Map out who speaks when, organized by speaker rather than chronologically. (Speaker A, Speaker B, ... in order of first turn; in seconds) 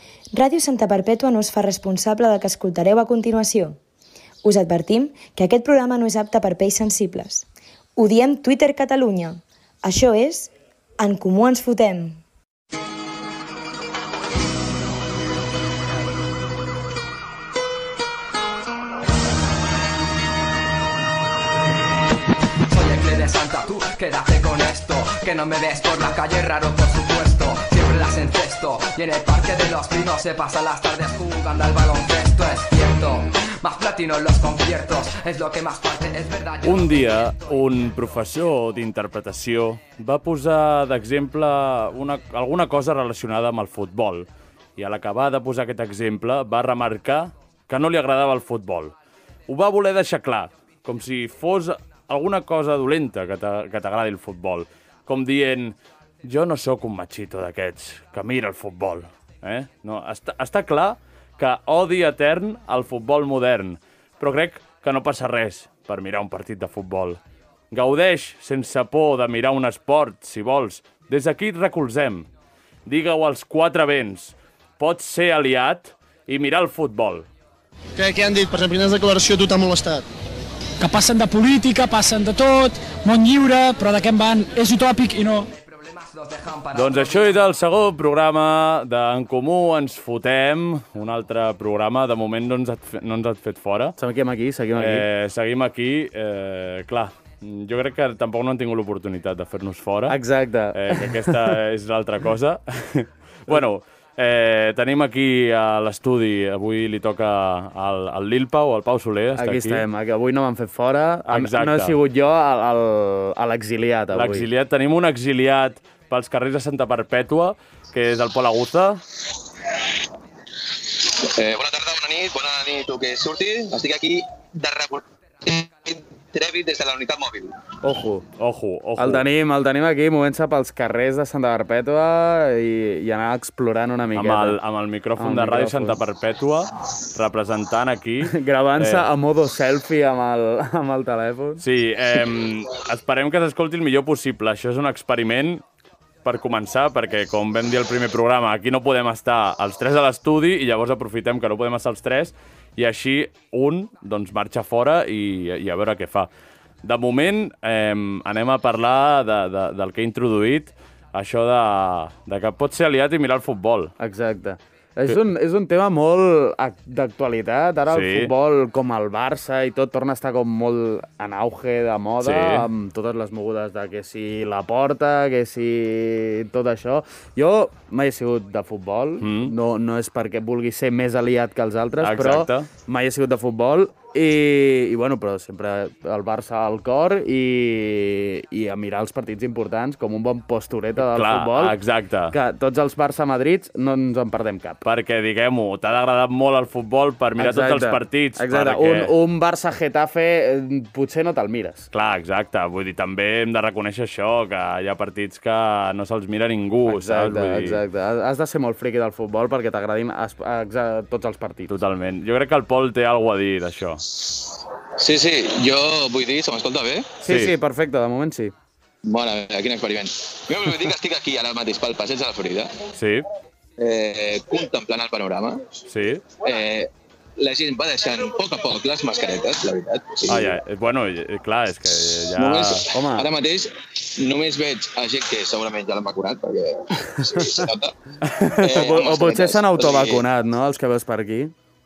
Speaker A: 0.3-3.8, 4.4-12.2
Speaker B: 22.7-37.5, 85.6-87.4
Speaker C: 36.6-48.9, 49.5-72.3, 72.9-77.3, 86.7-94.0, 94.8-100.2, 100.7-109.8, 111.3-112.0, 114.1-119.0, 128.4-129.2, 134.2-139.1, 141.6-145.6, 146.2-156.3, 156.8-163.9, 167.9-168.3, 172.2-172.7, 179.2-179.5, 182.0-182.7, 191.0-192.4, 194.8-199.1, 201.9-207.8, 211.7-214.0, 217.2-217.6, 222.9-223.3, 225.9-226.3, 230.3-232.9
Speaker D: 78.0-80.1
Speaker E: 80.8-85.5
Speaker F: 94.0-95.1, 100.1-101.5, 109.4-114.5, 127.8-128.2, 129.0-134.6, 135.2-136.0, 138.2-141.6, 164.0-191.8, 192.3-194.8, 197.4-201.9, 206.9-211.7, 217.2-218.5, 232.9-233.3, 238.6-241.5
Speaker G: 121.3-127.5, 215.0-217.1, 219.1-222.8, 223.8-225.6, 226.4-230.5, 232.4-237.9, 238.6-240.2